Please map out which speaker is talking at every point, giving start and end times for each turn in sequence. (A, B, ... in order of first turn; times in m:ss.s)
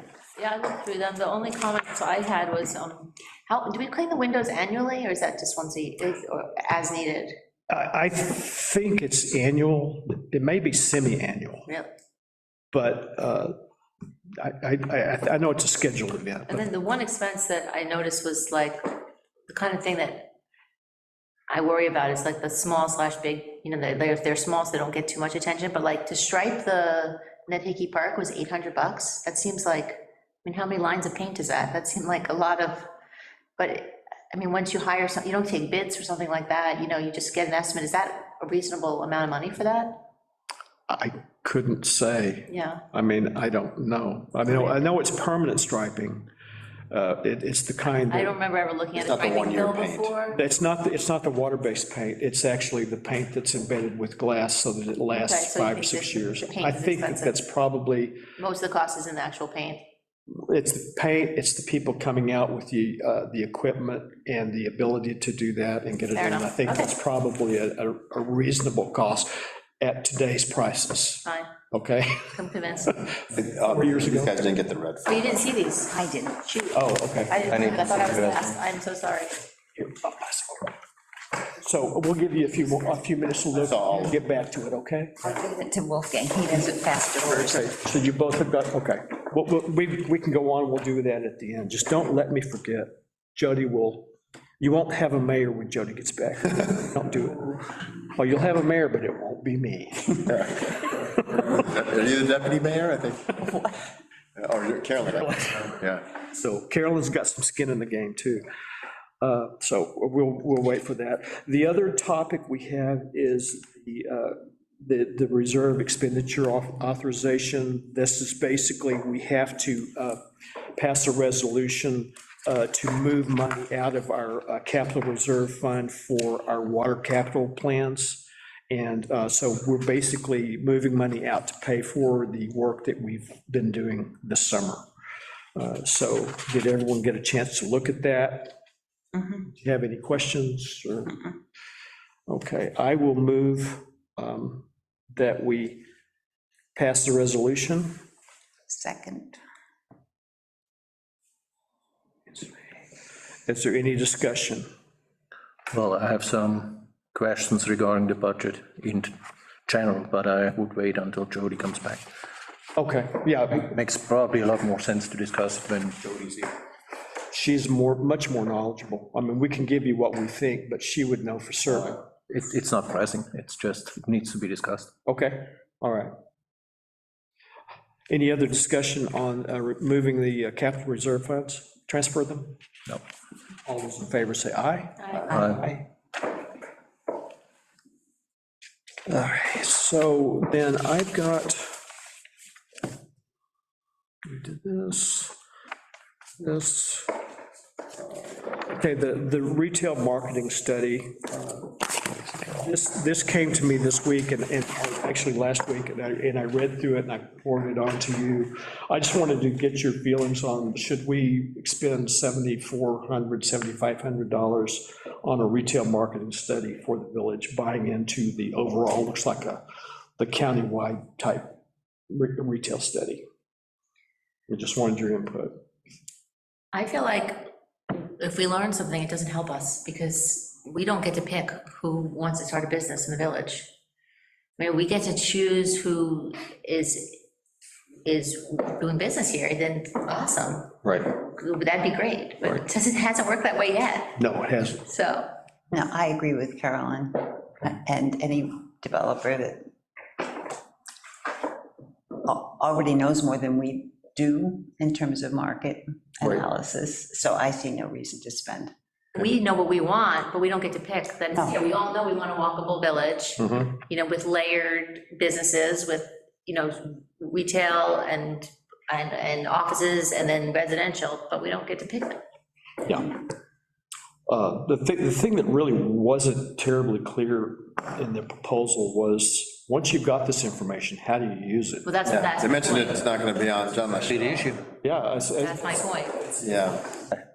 0:00.4-0:07.3 A
0:07.7-0:11.7 B
0:12.7-0:13.5 B
0:14.4-0:16.6 B
0:16.5-0:20.3 A
0:21.5-0:32.9 A
0:33.6-0:40.0 A
0:40.9-0:46.3 B
0:42.5-0:42.8 A
0:46.9-0:48.3 B
0:48.1-0:50.4 A
0:49.0-0:50.1 C
0:50.3-0:58.2 B
0:55.1-0:57.4 A
0:58.4-0:59.8 A
1:00.4-1:12.4 B
1:06.1-1:06.9 A
1:11.2-1:11.5 A
1:12.3-1:13.0 A
1:12.9-1:14.6 B
1:13.4-1:15.4 C
1:15.1-1:16.0 A
1:15.9-1:16.5 D
1:16.4-1:19.4 A
1:16.7-1:17.5 B
1:17.5-1:18.6 E
1:19.8-1:20.7 B
1:21.6-1:25.3 B
1:23.6-1:24.1 C
1:25.2-1:27.7 D
1:27.2-1:41.4 B
1:40.3-1:40.6 C
1:41.1-1:43.6 C
1:44.4-1:46.0 C
1:45.2-1:48.4 B
1:49.2-2:00.2 B
2:00.8-2:14.8 B
2:15.5-2:18.6 B
2:19.5-2:21.2 B
2:22.3-2:25.8 B
2:26.7-2:27.9 B
2:28.7-2:29.4 D
2:32.3-2:32.7 B
2:33.4-2:34.7 B
2:35.7-2:39.1 E
2:39.7-2:42.1 E
2:42.8-2:43.7 B
2:43.5-2:46.4 E
2:47.3-2:52.0 B
2:52.3-2:54.9 E
2:55.0-2:56.1 B
2:58.1-3:02.6 B
3:03.7-3:05.8 B
3:05.0-3:05.6 A
3:05.3-3:05.7 E
3:09.1-3:11.8 B
3:14.2-3:15.3 B
3:16.4-3:17.1 B
3:18.5-3:21.8 B
3:22.4-3:39.6 B
3:40.2-3:41.6 B
3:42.1-3:43.2 B
3:44.5-3:45.5 B
3:46.7-3:53.7 A
3:54.6-3:57.2 A
3:58.0-4:04.2 A
4:00.8-4:01.1 B
4:04.2-4:04.8 B
4:04.8-4:05.3 A
4:05.7-4:09.7 D
4:12.2-4:18.7 D
4:19.2-4:32.2 A
4:21.3-4:21.6 D
4:23.4-4:23.7 B
4:32.8-4:33.2 B
4:34.3-4:42.0 B
4:41.8-4:43.3 A
4:42.1-4:44.5 C
4:44.0-4:44.6 E
4:44.8-4:46.9 B
4:45.4-4:46.2 A
4:46.4-4:46.8 C